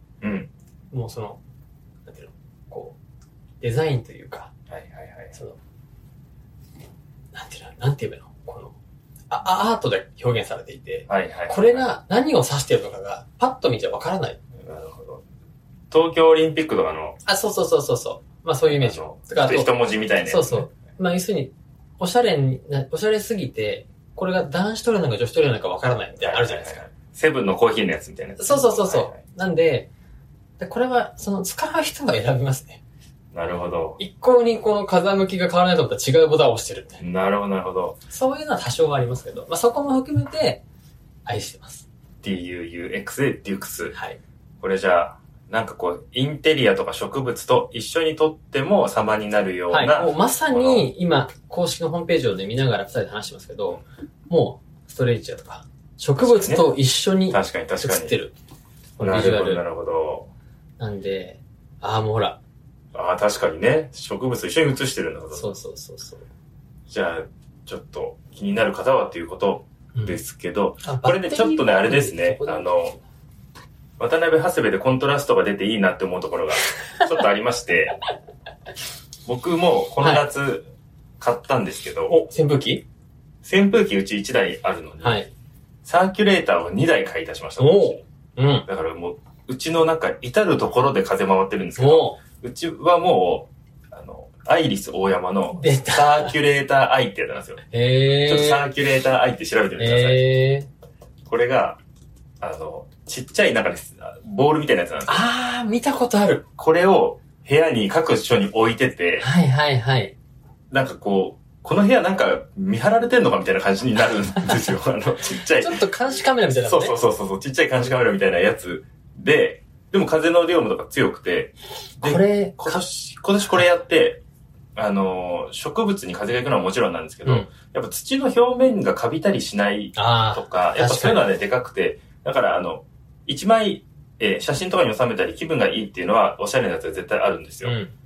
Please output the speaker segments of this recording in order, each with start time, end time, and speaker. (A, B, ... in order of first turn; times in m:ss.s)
0:00.2-0:00.5 A
0:00.9-0:01.4 B
0:02.1-0:03.0 B
0:03.6-0:04.5 B
0:04.7-0:05.4 A
0:07.3-0:08.7 B
0:09.3-0:14.4 B
0:11.1-0:11.9 A
0:14.6-0:15.2 A
0:15.9-0:17.2 A
0:17.2-0:19.7 B
0:18.6-0:20.7 A
0:20.2-0:26.8 B
0:26.2-0:29.2 A
0:28.4-0:29.9 B
0:30.6-0:32.8 B
0:33.3-0:34.0 A
0:34.0-0:37.0 B
0:37.0-0:38.0 A
0:38.1-0:40.6 B
0:41.3-0:41.9 B
0:42.2-0:44.0 A
0:44.6-0:50.8 A
0:49.7-0:58.4 B
0:56.2-0:56.7 A
0:57.3-0:58.2 A
0:59.0-0:59.6 B
0:59.0-1:00.3 A
1:00.8-1:02.4 B
1:02.9-1:05.6 A
1:05.4-1:06.2 B
1:06.9-1:13.0 A
1:10.8-1:12.8 B
1:14.0-1:18.0 A
1:19.3-1:22.1 A
1:22.1-1:22.8 B
1:23.4-1:25.2 A
1:25.0-1:25.3 B
1:25.8-1:28.0 A
1:27.6-1:28.7 B
1:28.7-1:37.6 A
1:31.8-1:32.2 B
1:35.6-1:36.4 B
1:37.7-1:38.7 B
1:38.2-1:40.2 A
1:39.8-1:40.7 B
1:41.3-1:41.8 A
1:42.4-1:45.2 A
1:45.1-1:46.4 B
1:46.6-1:49.3 A
1:49.2-1:50.2 B
1:50.7-1:55.8 A
1:55.6-1:57.0 B
1:56.6-2:04.2 A
2:02.0-2:02.8 B
2:04.8-2:17.8 A
2:10.0-2:11.3 B
2:17.6-2:17.9 B